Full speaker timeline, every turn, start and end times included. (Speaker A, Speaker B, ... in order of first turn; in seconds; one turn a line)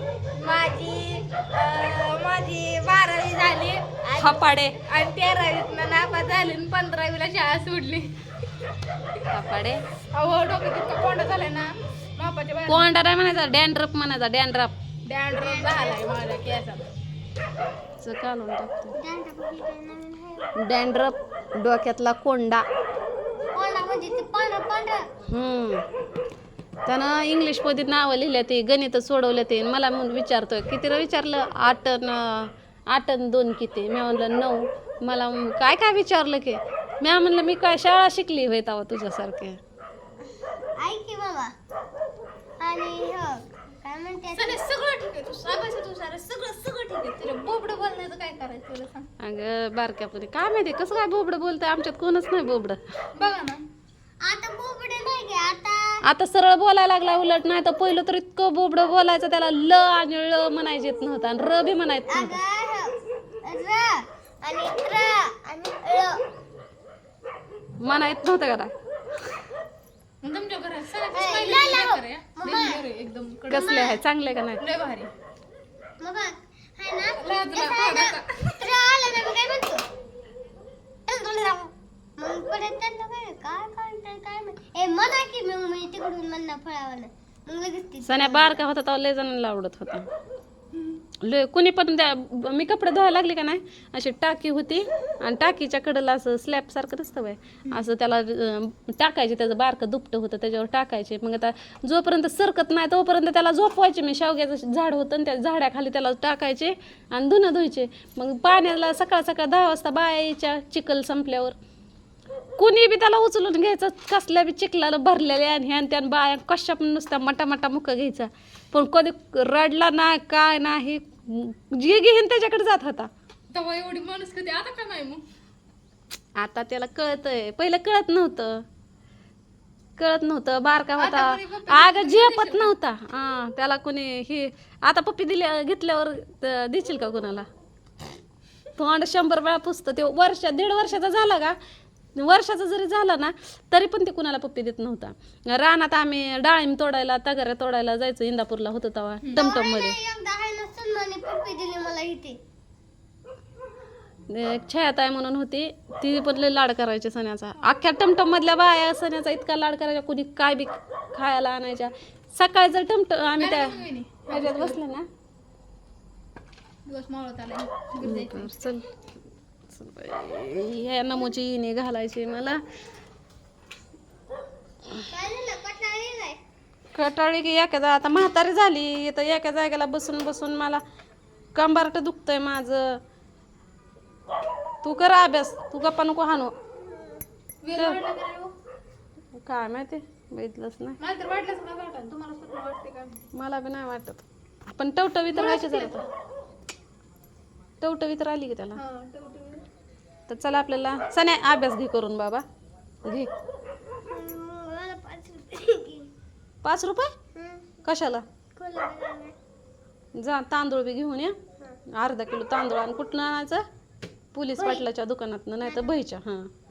Speaker A: 0.4-0.8
Speaker B: 0.4-4.2
Speaker C: 4.2-4.8
Speaker B: 4.8-8.1
Speaker C: 9.3-9.8
Speaker B: 10.1-12.9
Speaker C: 12.7-14.7
Speaker B: 15.1-16.8
Speaker A: 15.3-16.0
Speaker C: 18.0-18.9
Speaker A: 18.9-20.6
Speaker C: 20.6-22.6
Speaker A: 23.5-25.0
Speaker C: 25.3-25.8
Speaker C: 26.9-39.6
Speaker A: 40.8-41.5
Speaker A: 42.6-44.6
Speaker B: 44.3-49.1
Speaker C: 49.2-52.8
Speaker B: 53.1-53.6
Speaker A: 54.2-56.0
Speaker C: 56.0-62.4
Speaker A: 62.1-66.2
Speaker C: 67.8-68.7
Speaker B: 70.2-73.7
Speaker A: 71.1-72.8
Speaker C: 73.5-74.6
Speaker A: 73.5-74.0
Speaker B: 74.6-75.1
Speaker A: 76.0-79.8
Speaker B: 77.2-78.7
Speaker A: 81.1-88.6
Speaker C: 88.0-90.1
Speaker C: 91.2-111.5
Speaker C: 112.6-123.1
Speaker B: 123.5-125.2
Speaker C: 126.4-128.6
Speaker C: 130.0-137.4
Speaker B: 131.0-132.7
Speaker C: 138.8-141.6
Speaker C: 142.2-150.0
Speaker B: 149.2-149.4
Speaker A: 149.3-152.4
Speaker C: 154.3-165.1
Speaker B: 163.4-164.8
Speaker B: 166.8-168.5
Speaker C: 168.0-168.8
Speaker C: 169.7-172.6
Speaker A: 175.1-176.4
Speaker C: 176.9-180.8
Speaker C: 181.5-183.0
Speaker C: 184.8-186.5
Speaker A: 186.9-187.2
Speaker B: 187.6-188.5
Speaker C: 189.4-191.0
Speaker B: 191.0-193.3
Speaker C: 193.3-196.0
Speaker B: 195.3-196.1
Speaker C: 197.8-198.8
Speaker B: 198.8-199.6
Speaker C: 200.3-202.4
Speaker A: 204.1-206.1
Speaker C: 206.6-207.1
Speaker A: 207.3-207.8
Speaker C: 207.8-208.2
Speaker A: 208.6-209.3
Speaker C: 210.1-211.3
Speaker C: 211.9-213.6
Speaker C: 214.3-216.5
Speaker A: 214.6-214.8